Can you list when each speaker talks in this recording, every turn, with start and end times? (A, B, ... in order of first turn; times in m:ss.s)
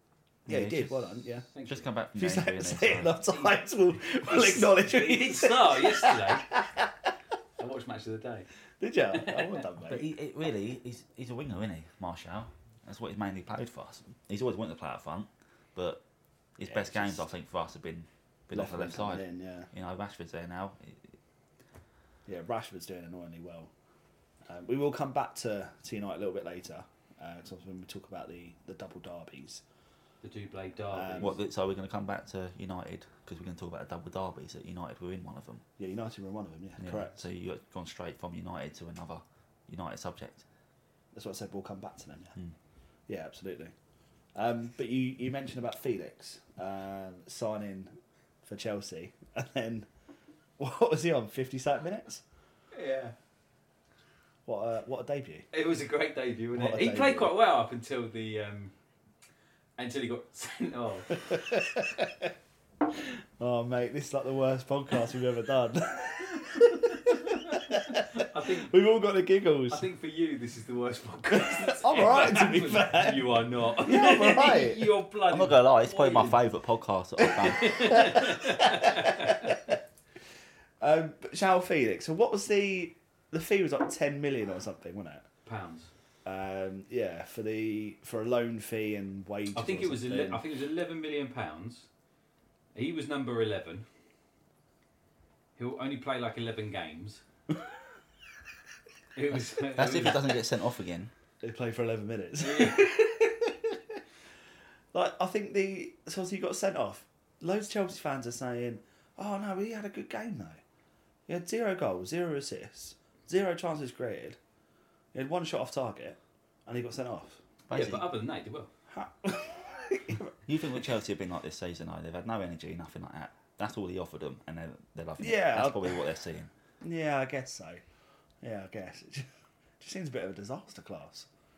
0:00.4-0:01.1 A
0:00.5-0:01.5 B
0:01.5-0:01.9 C
0:01.6-0:03.2 A
0:02.1-0:06.9 B
0:03.3-0:06.5 C
0:07.6-0:08.5 C
0:08.8-0:10.1 B
0:09.2-0:09.6 C
0:09.8-0:16.0 A
0:16.6-0:21.2 A
0:16.6-0:17.2 B
0:18.5-0:19.7 B
0:22.2-0:23.7 B
0:24.5-0:29.6 B
0:30.2-0:31.4 C
0:30.9-0:31.4 B
0:31.2-0:35.6 A
0:35.8-0:37.2 B
0:36.8-0:40.4 A
0:41.1-0:42.4 B
0:43.1-0:43.7 B
0:44.3-0:49.9 B
0:50.6-0:52.2 B
0:52.7-0:53.1 C
0:54.4-0:55.4 B
0:55.5-0:58.7 C
0:56.5-0:57.3 B
0:59.8-1:01.3 C
1:01.2-1:02.3 B
1:03.4-1:08.0 B
1:06.9-1:08.7 C
1:08.6-1:09.9 B
1:09.7-1:16.4 C
1:11.3-1:14.9 B
1:15.3-1:18.1 A
1:17.4-1:19.6 B
1:17.5-1:19.6 C
1:20.8-1:25.2 B
1:25.4-1:25.9 C
1:26.2-1:30.4 B
1:29.5-1:31.9 C
1:32.7-1:33.8 C
1:35.6-1:37.2 C
1:39.1-1:40.2 C
1:39.7-1:41.1 A
1:41.4-1:44.0 B
1:42.4-1:42.8 C
1:44.9-1:50.6 B
1:51.3-1:54.4 B
1:55.1-1:57.4 B
1:57.7-1:58.1 A
1:57.7-1:58.7 C
1:58.9-2:00.3 B
2:00.4-2:06.5 A
2:05.2-2:06.0 B
2:06.8-2:07.8 B
2:08.4-2:09.3 B
2:09.8-2:11.3 B